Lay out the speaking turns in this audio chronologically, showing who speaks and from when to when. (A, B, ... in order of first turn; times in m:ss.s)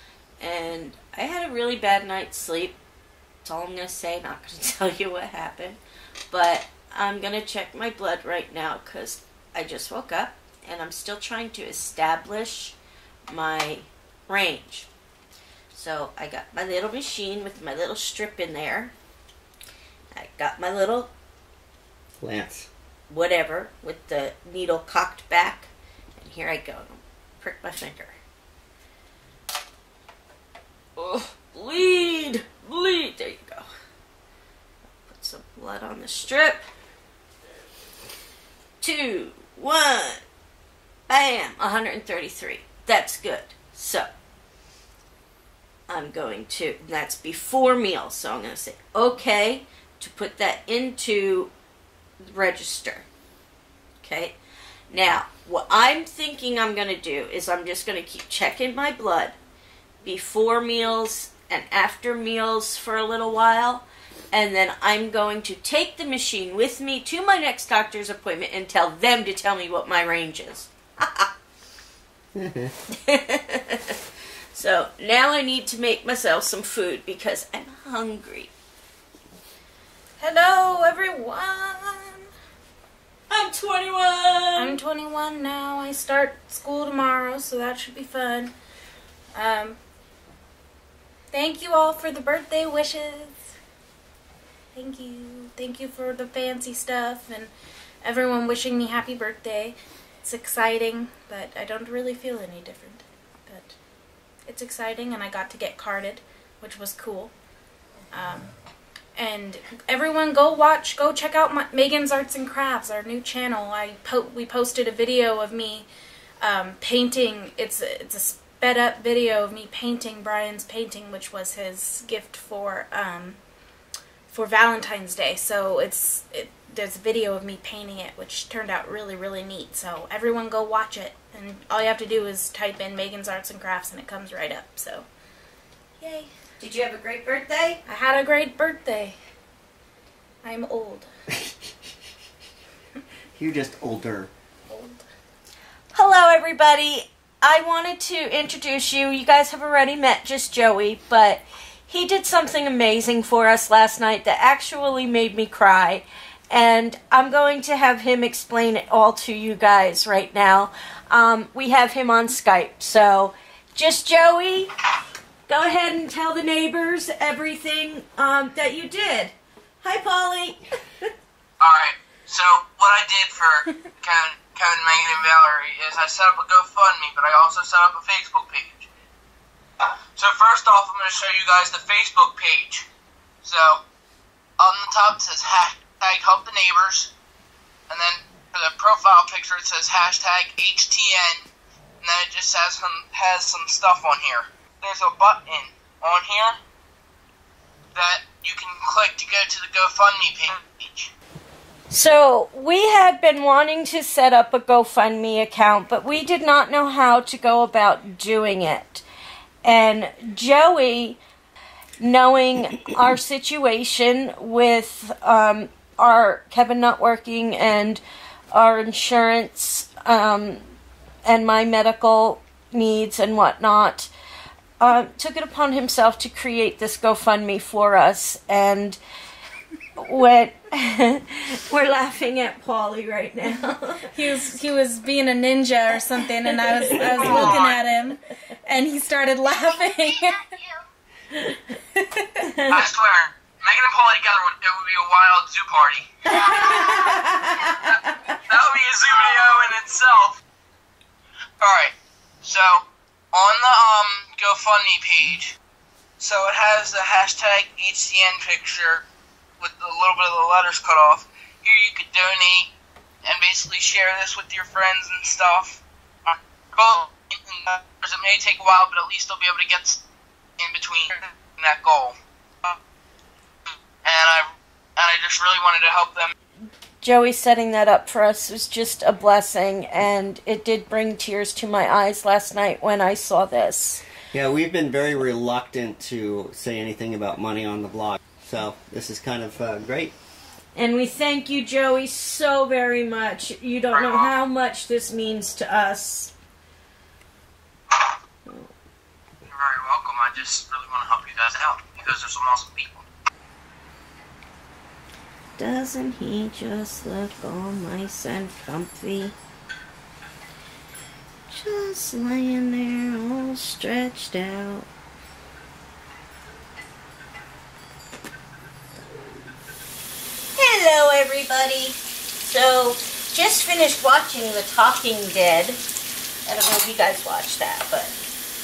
0:00.4-0:02.8 A
0:03.4-0:05.8 A
0:06.3-0:12.8 A
0:13.3-0:14.9 A
0:15.7-0:18.9 A
0:20.1-0:21.1 A
0:22.2-0:22.7 B
0:23.1-0:28.2 A
0:31.0-0:33.7 A
0:35.0-0:36.6 A
0:38.8-0:40.2 A
0:41.1-0:44.1 A
0:45.9-0:51.5 A
0:52.2-0:53.1 A
0:54.0-0:54.4 A
0:54.9-0:59.4 A
1:00.0-1:11.3 A
1:12.3-1:12.7 B
1:13.0-1:14.0 A
1:14.5-1:18.5 A
1:20.2-1:22.2 C
1:23.3-1:24.8 A
1:24.6-1:28.5 C
1:29.3-1:29.8 C
1:31.3-1:33.4 C
1:34.7-1:37.5 C
1:38.0-1:43.7 C
1:44.5-1:47.3 C
1:48.1-1:48.5 C
1:49.2-1:55.9 C
1:56.4-2:03.4 C
2:04.3-2:15.1 C
2:16.0-2:16.3 C
2:16.6-2:17.8 A
2:17.9-2:19.2 C
2:20.4-2:21.1 C
2:23.4-2:24.3 B
2:24.7-2:25.0 C
2:25.9-2:44.7 A
2:45.5-2:51.1 A
2:51.6-2:58.9 D
3:00.2-3:02.8 D
3:03.4-3:03.8 D
3:04.6-3:07.1 D
3:07.9-3:11.5 D
3:12.0-3:16.6 D
3:17.9-3:21.1 D
3:21.9-3:29.0 A
3:29.6-3:31.2 A
3:32.0-3:38.0 A
3:38.5-3:40.6 A
3:41.2-3:44.1 A
3:44.8-3:49.0 A
3:50.0-3:54.1 A
3:54.1-4:00.5 C
3:56.6-3:57.6 A
3:57.1-3:57.8 D
4:01.9-4:02.7 C
4:02.7-4:06.9 D
4:06.3-4:08.2 A
4:06.6-4:07.0 C
4:07.9-4:10.4 D
4:11.6-4:15.5 D
4:16.2-4:19.0 D
4:19.6-4:22.7 D
4:23.2-4:30.0 D
4:30.6-4:32.8 D
4:34.0-4:36.3 D
4:37.0-4:44.0 A
4:44.3-4:50.1 B
4:50.7-4:56.3 A
4:53.9-4:54.3 D
4:59.5-5:03.0 D
5:05.6-5:09.3 A
5:11.5-5:14.9 A
5:20.5-5:25.8 A
5:26.4-5:28.1 A